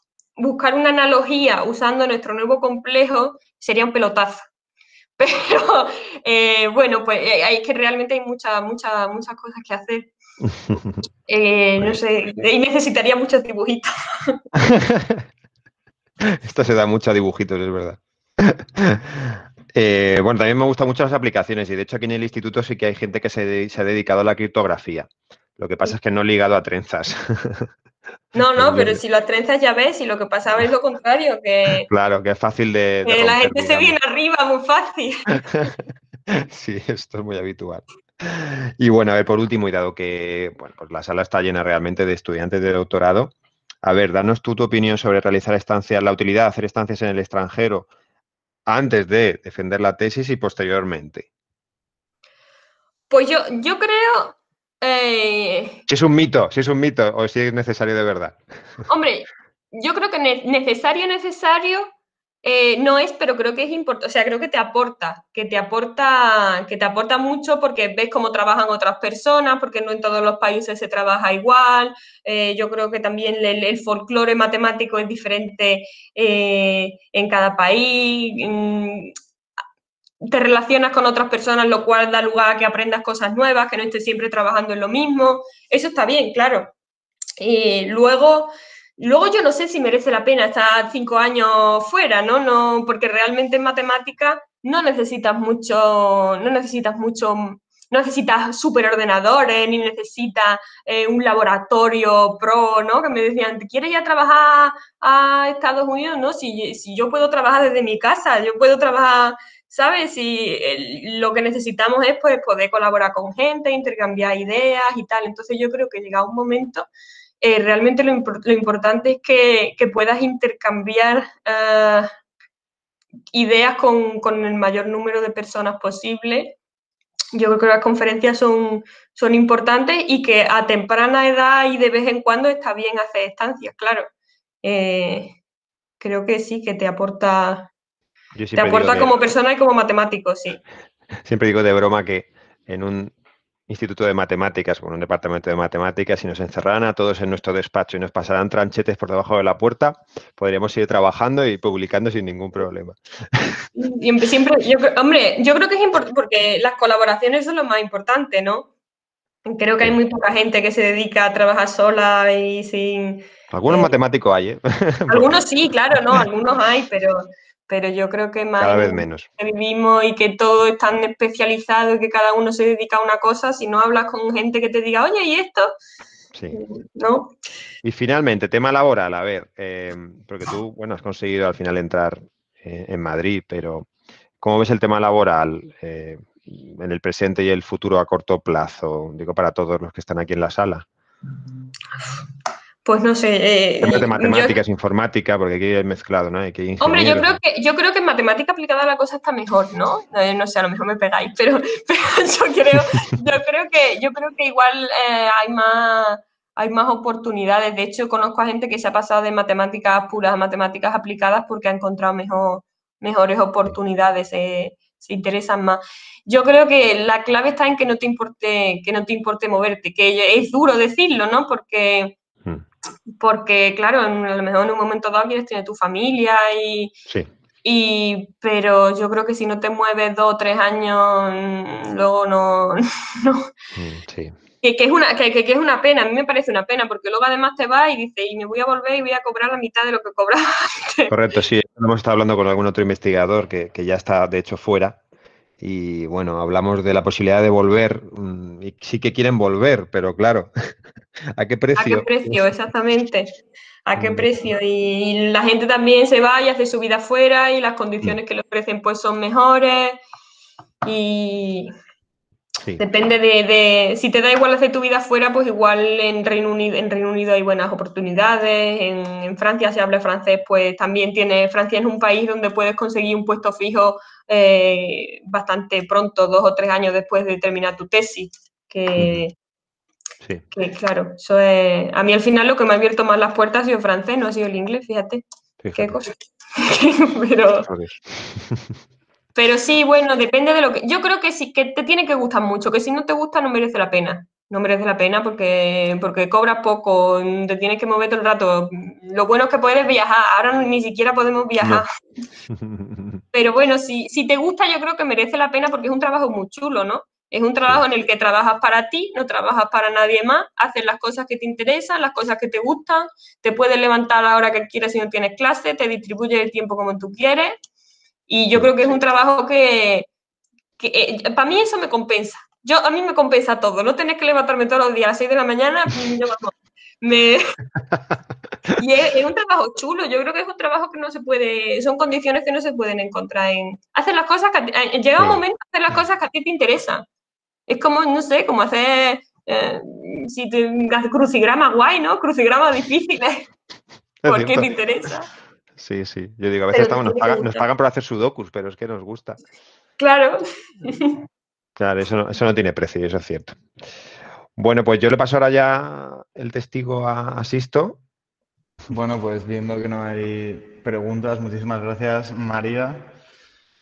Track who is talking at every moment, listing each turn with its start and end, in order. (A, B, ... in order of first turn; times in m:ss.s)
0:00.4-0:04.5 A
0:05.2-0:10.1 A
0:10.7-0:11.0 B
0:11.3-0:14.4 A
0:14.6-0:15.2 B
0:16.4-0:27.7 B
0:28.3-0:31.9 A
0:28.4-0:29.0 B
0:31.9-0:34.0 B
0:33.0-0:35.6 A
0:35.5-0:47.9 B
0:48.7-0:51.3 B
0:53.1-0:55.8 A
0:55.9-0:58.4 B
0:58.9-1:01.9 A
1:02.4-1:19.1 A
1:20.2-1:26.7 A
1:27.4-1:56.9 A
1:57.4-2:02.1 A
2:03.3-2:06.6 A
2:07.3-2:14.1 A
2:14.6-2:15.4 A
2:16.0-2:17.7 A
2:18.3-2:19.1 B
2:18.6-2:20.6 A
2:21.2-2:23.1 B
2:23.7-2:33.6 B
2:33.7-2:38.7 A
2:39.4-2:43.9 A
2:43.5-2:45.4 B
2:45.1-2:55.7 A
2:48.6-2:49.3 B
2:56.3-2:56.6 B
2:56.5-2:57.3 A
2:57.8-3:03.9 B
3:04.4-3:10.9 B
3:12.8-3:14.6 A
3:13.8-3:17.4 B
3:16.8-3:42.2 A
3:43.2-3:46.9 A
3:47.6-3:53.5 A
3:53.8-3:54.4 B
3:54.6-4:01.1 A
4:01.1-4:05.0 B
4:05.6-4:10.5 B
4:11.3-4:12.5 B
4:11.8-4:13.3 A
4:13.8-4:20.0 A
4:14.0-4:14.4 B
4:20.8-4:21.7 A
4:22.8-4:39.3 A
4:39.0-4:39.2 B
4:40.5-4:45.2 A
4:45.6-4:46.0 B
4:45.7-4:47.7 A
4:47.6-4:48.7 B
4:49.3-5:01.9 A
5:02.5-5:03.2 B
5:03.3-5:17.6 A
5:18.3-5:20.1 A
5:20.8-5:27.5 A
5:28.8-5:37.0 A
5:37.7-5:43.5 A
5:44.2-5:44.7 B
5:44.2-5:45.3 A
5:45.8-5:49.4 B
5:46.7-5:47.6 A
5:50.0-5:51.2 A
5:51.8-5:53.6 B
5:54.6-5:58.0 B
5:58.9-6:03.1 C